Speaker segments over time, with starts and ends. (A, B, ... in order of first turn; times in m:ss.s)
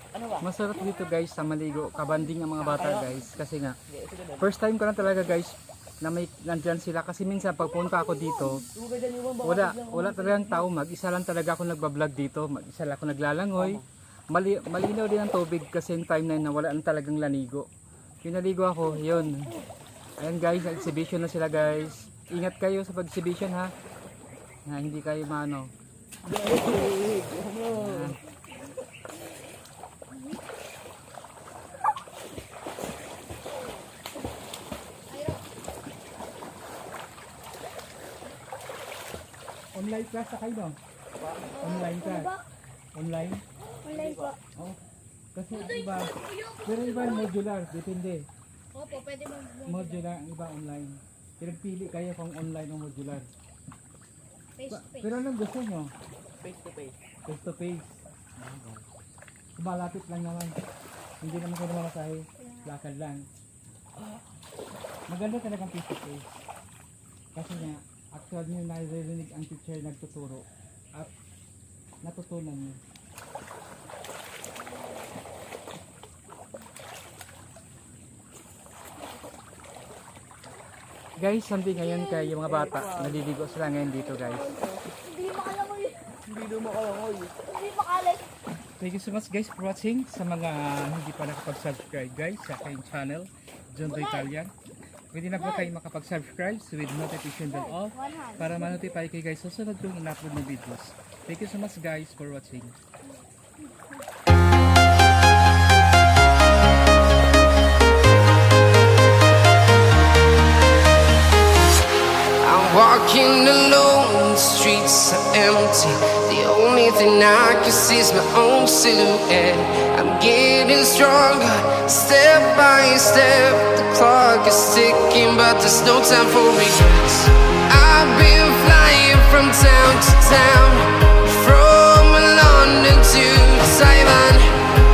0:00.1-0:00.4 A
0:00.4-0:03.8 B
0:01.7-0:02.6 C
0:02.8-0:03.1 A
0:03.9-0:04.5 A
0:04.4-0:08.6 B
0:07.6-0:08.6 C
0:08.7-0:10.7 A
0:09.4-0:17.7 B
0:13.5-0:13.9 A
0:18.2-0:19.6 B
0:19.0-0:19.2 C
0:20.2-0:23.7 B
0:24.6-0:25.7 B
0:26.2-0:28.1 A
0:27.7-0:28.2 B
0:35.1-0:35.4 C
0:39.7-0:40.8 B
0:41.2-0:41.5 A
0:41.5-0:42.4 C
0:41.6-0:42.3 B
0:42.9-0:43.4 B
0:43.8-0:44.4 C
0:43.9-0:44.4 A
0:45.3-0:48.3 B
0:45.5-0:47.3 C
0:48.7-0:50.0 C
0:49.6-0:53.3 B
0:54.6-0:55.2 C
0:54.7-0:55.9 B
0:56.4-0:56.9 A
0:57.2-0:58.0 B
0:58.4-0:58.8 A
0:59.6-1:00.6 B
1:01.2-1:03.3 B
1:02.4-1:02.7 C
1:05.1-1:06.4 B
1:07.3-1:11.1 B
1:12.0-1:12.8 B
1:21.2-1:24.6 B
1:21.9-1:22.2 C
1:22.4-1:23.2 A
1:23.8-1:26.0 C
1:26.3-1:27.3 A
1:27.5-1:28.2 C
1:28.8-1:34.5 B
1:33.9-1:34.3 C
1:35.1-1:42.7 B
1:35.3-1:35.7 C
1:37.4-1:38.9 C
1:52.4-2:14.5 D